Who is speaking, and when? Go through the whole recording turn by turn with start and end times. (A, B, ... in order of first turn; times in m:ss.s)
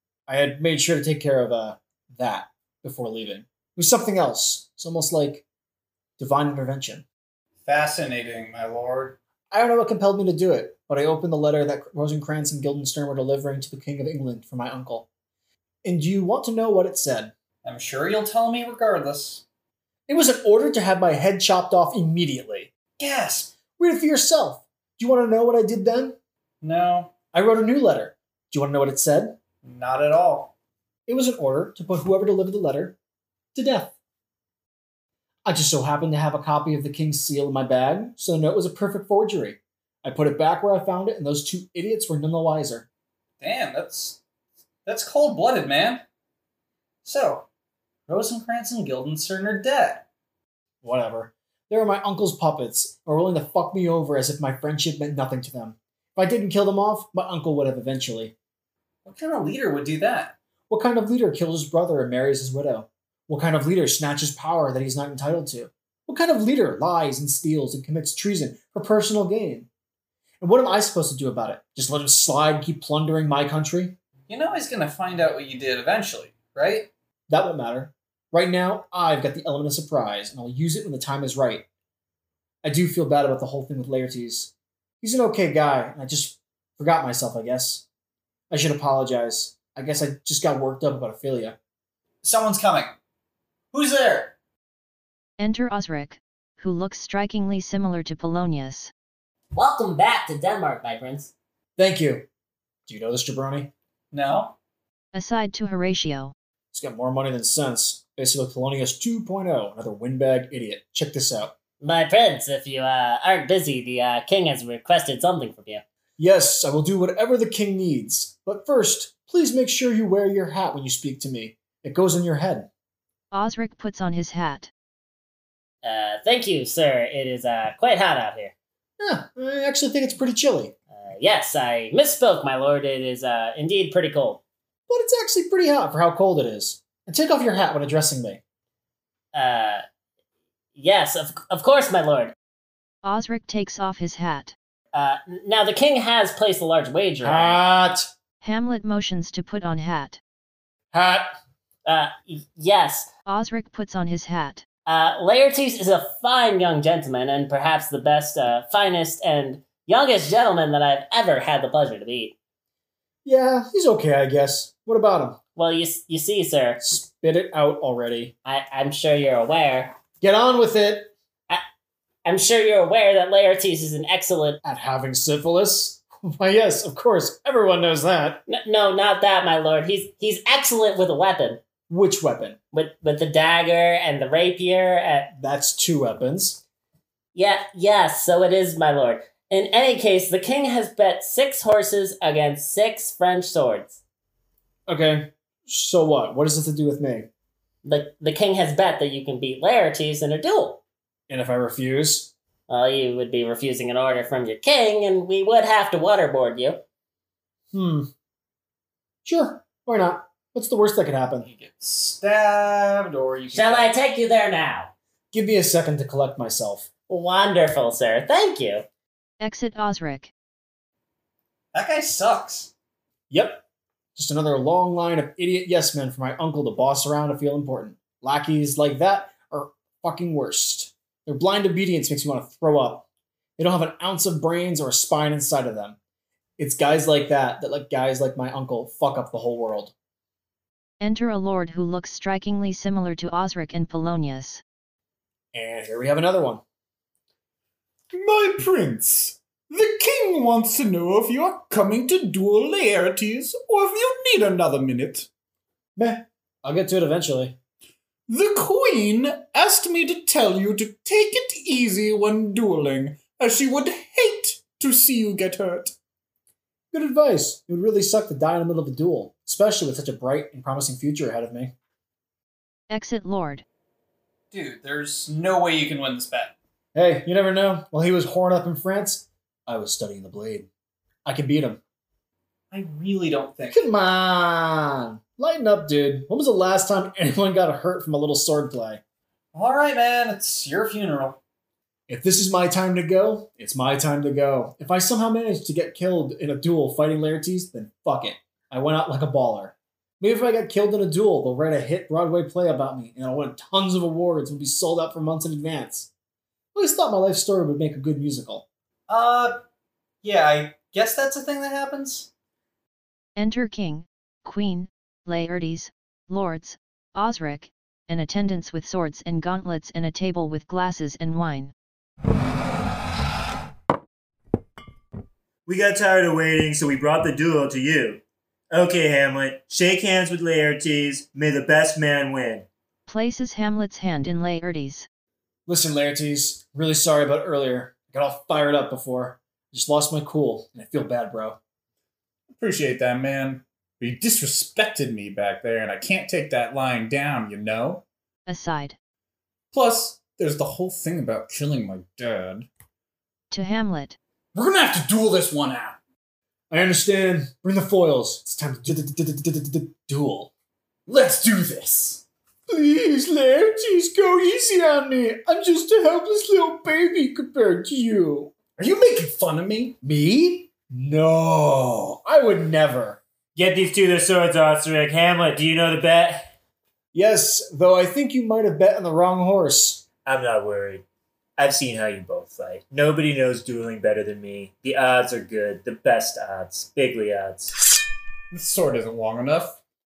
0:00.3-0:05.5 A
0:06.2-0:07.0 A
0:07.6-0:09.2 B
0:09.5-0:15.1 A
0:15.8-0:17.3 A
0:17.6-0:19.4 B
0:20.1-0:22.7 A
0:23.0-0:23.6 B
0:23.8-0:26.2 A
0:26.6-0:27.1 B
0:27.3-0:29.4 A
0:29.6-0:30.5 B
0:31.1-0:33.0 A
0:33.5-0:34.0 A
0:35.4-0:42.9 A
0:43.4-0:44.2 B
0:44.9-0:46.0 B
0:47.0-0:47.5 B
0:48.1-0:50.0 B
0:50.8-0:58.3 A
0:59.0-1:00.4 B
1:00.7-1:09.7 A
1:10.4-1:14.0 A
1:14.3-1:16.9 B
1:17.3-1:21.7 A
1:22.6-1:27.8 A
1:28.5-1:31.6 A
1:32.2-1:32.9 B
1:33.7-1:34.4 B
1:35.4-1:38.9 C
1:39.5-1:41.3 D
1:41.8-1:42.3 A
1:42.9-1:43.7 A
1:44.1-1:44.5 B
1:45.1-1:46.3 C
1:46.7-1:51.5 A
1:51.8-1:55.8 D
1:56.2-2:02.7 A
2:03.3-2:04.7 C
2:05.8-2:08.5 D
2:09.0-2:10.8 A
2:10.9-2:14.4 D
2:14.9-2:18.4 A
2:19.3-2:19.8 D
2:20.8-2:22.3 D
2:23.0-2:24.5 C
2:24.9-2:27.6 D
2:27.2-2:28.1 A
2:28.4-2:30.2 C
2:30.9-2:31.3 A
2:31.8-2:33.1 D
2:33.2-2:34.6 C
2:34.9-2:42.4 D
2:43.2-2:45.4 A
2:45.6-2:46.8 D
2:46.8-2:48.4 A
2:48.4-2:50.0 D
2:50.2-2:51.1 A
2:52.2-2:54.6 D
2:54.6-2:58.4 A
2:58.5-3:01.6 D
3:01.9-3:02.6 A
3:02.7-3:05.3 D
3:05.4-3:06.6 A
3:07.3-3:14.0 D
3:14.9-3:17.3 A
3:17.8-3:20.8 D
3:21.3-3:22.3 A
3:22.7-3:26.8 D
3:27.7-3:28.1 A
3:29.2-3:31.5 A
3:31.4-3:33.9 B
3:33.5-3:34.9 D
3:35.3-3:36.9 A
3:37.1-3:38.9 D
3:39.4-3:40.3 C
3:41.7-3:42.7 B
3:43.3-3:43.6 A
3:44.1-3:53.1 A
3:53.6-3:56.0 A
3:56.6-3:59.9 A
4:01.0-4:04.6 C
4:05.5-4:06.6 A
4:08.1-4:15.3 E
4:16.0-4:17.6 A
4:18.3-4:25.9 E
4:26.9-4:31.7 A
4:32.9-4:33.6 C
4:34.5-4:36.6 B
4:36.9-4:40.7 A
4:41.2-4:41.8 A
4:42.7-4:43.8 B
4:43.7-4:49.0 A
4:49.5-4:51.4 B
4:52.1-5:06.1 A
5:06.8-5:08.6 A
5:09.1-5:09.6 B
5:10.2-5:12.3 B
5:13.4-5:21.7 C
5:25.6-5:32.7 F
5:33.1-5:35.1 C
5:35.7-5:41.6 A
5:42.6-5:48.0 E
5:48.4-5:49.0 C
5:49.7-5:52.7 E
5:53.5-5:54.2 C
5:54.5-5:56.0 E
5:56.7-6:00.5 A
6:01.1-6:02.2 E
6:02.7-6:08.5 A
6:08.8-6:10.0 E
6:10.0-6:13.2 A
6:13.6-6:16.5 F
6:17.1-6:20.0 A
6:20.2-6:21.0 F
6:21.6-6:27.8 F
6:28.5-6:29.8 E